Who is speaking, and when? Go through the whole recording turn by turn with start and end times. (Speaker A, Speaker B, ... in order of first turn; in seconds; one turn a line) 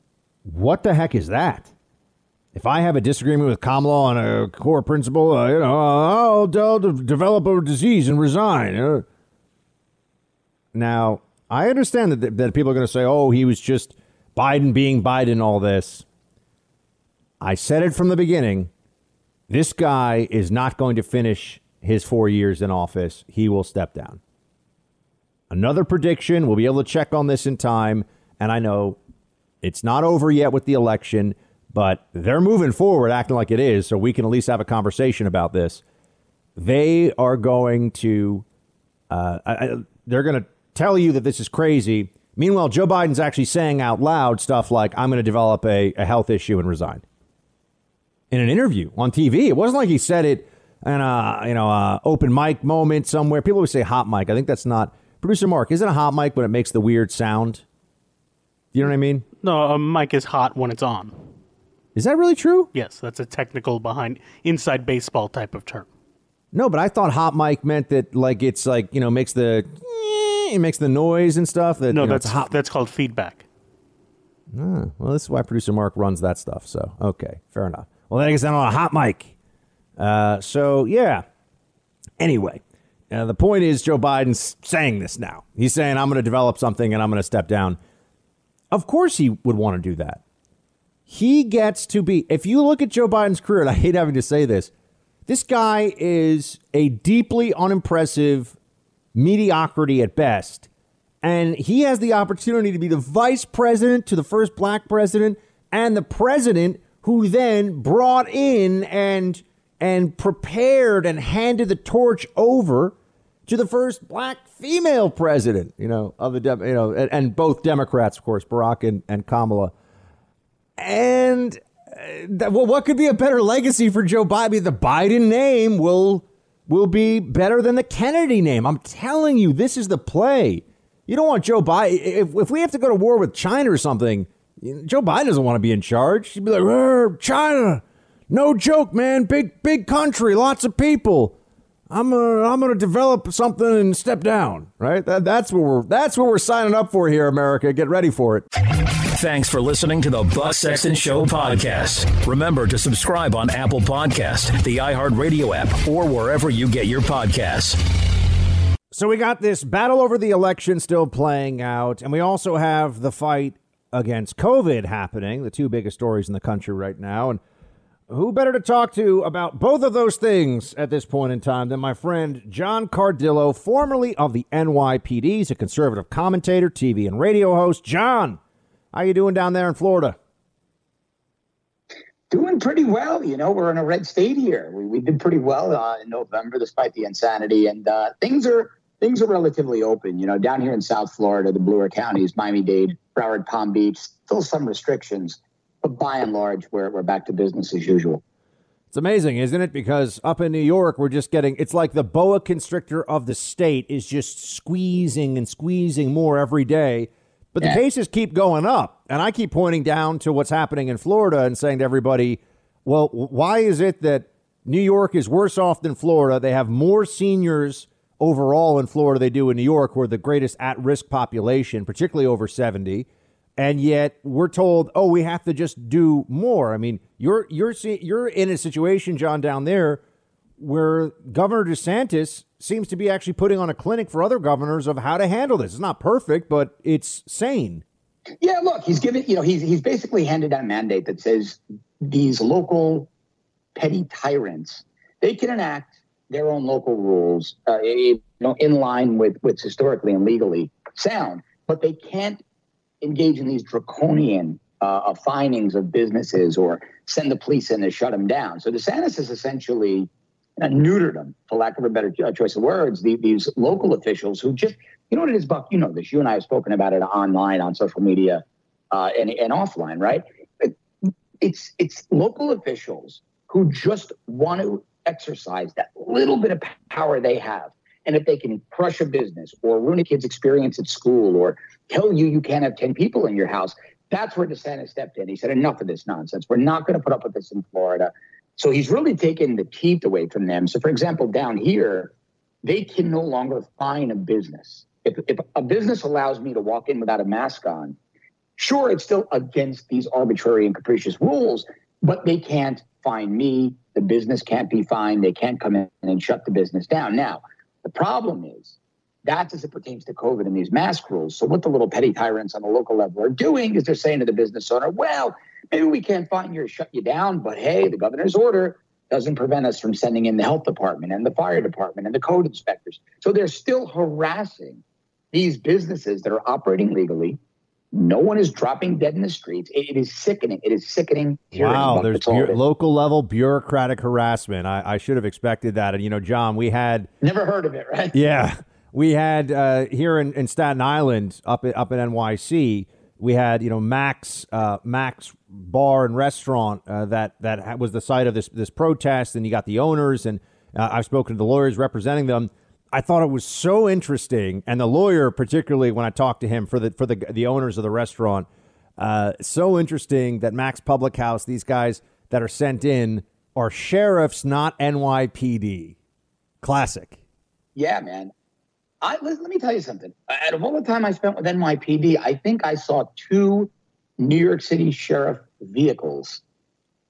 Speaker A: 0.5-1.7
Speaker A: 2.5-9.1
Speaker A: 10.7-16.1
Speaker A: 17.4-18.7
Speaker A: 19.5-24.2
Speaker A: 25.5-29.0
Speaker A: 29.6-35.8
Speaker A: 36.5-38.5
Speaker A: 39.1-47.0
Speaker A: 48.3-57.6
Speaker A: 58.7-59.3
Speaker B: 59.4-61.2
Speaker A: 62.0-62.7
Speaker B: 62.7-65.9
Speaker A: 66.5-72.5
Speaker B: 71.9-73.4
Speaker A: 74.5-79.3
Speaker A: 80.0-81.2
Speaker A: 82.2-87.8
Speaker A: 88.7-90.2
Speaker A: 91.1-94.7
Speaker A: 95.3-98.5
Speaker A: 99.1-100.7
Speaker A: 101.2-113.0
Speaker A: 113.5-119.7
Speaker A: 120.8-141.4
Speaker A: 141.9-148.4
Speaker C: 149.1-157.8
Speaker A: 158.9-167.4
Speaker A: 168.1-178.4
Speaker A: 178.9-180.2
Speaker D: 182.3-198.2
Speaker A: 198.9-230.0
Speaker A: 230.6-237.8
Speaker D: 238.4-243.1
Speaker D: 243.7-252.4
Speaker D: 253.0-270.8
Speaker D: 271.4-298.0
Speaker D: 298.6-327.4
Speaker D: 327.9-332.6
Speaker A: 331.5-337.1
Speaker D: 337.2-338.2
Speaker A: 338.1-358.5
Speaker A: 359.0-365.9
Speaker A: 366.6-367.2
Speaker D: 367.8-368.3
Speaker D: 369.0-376.4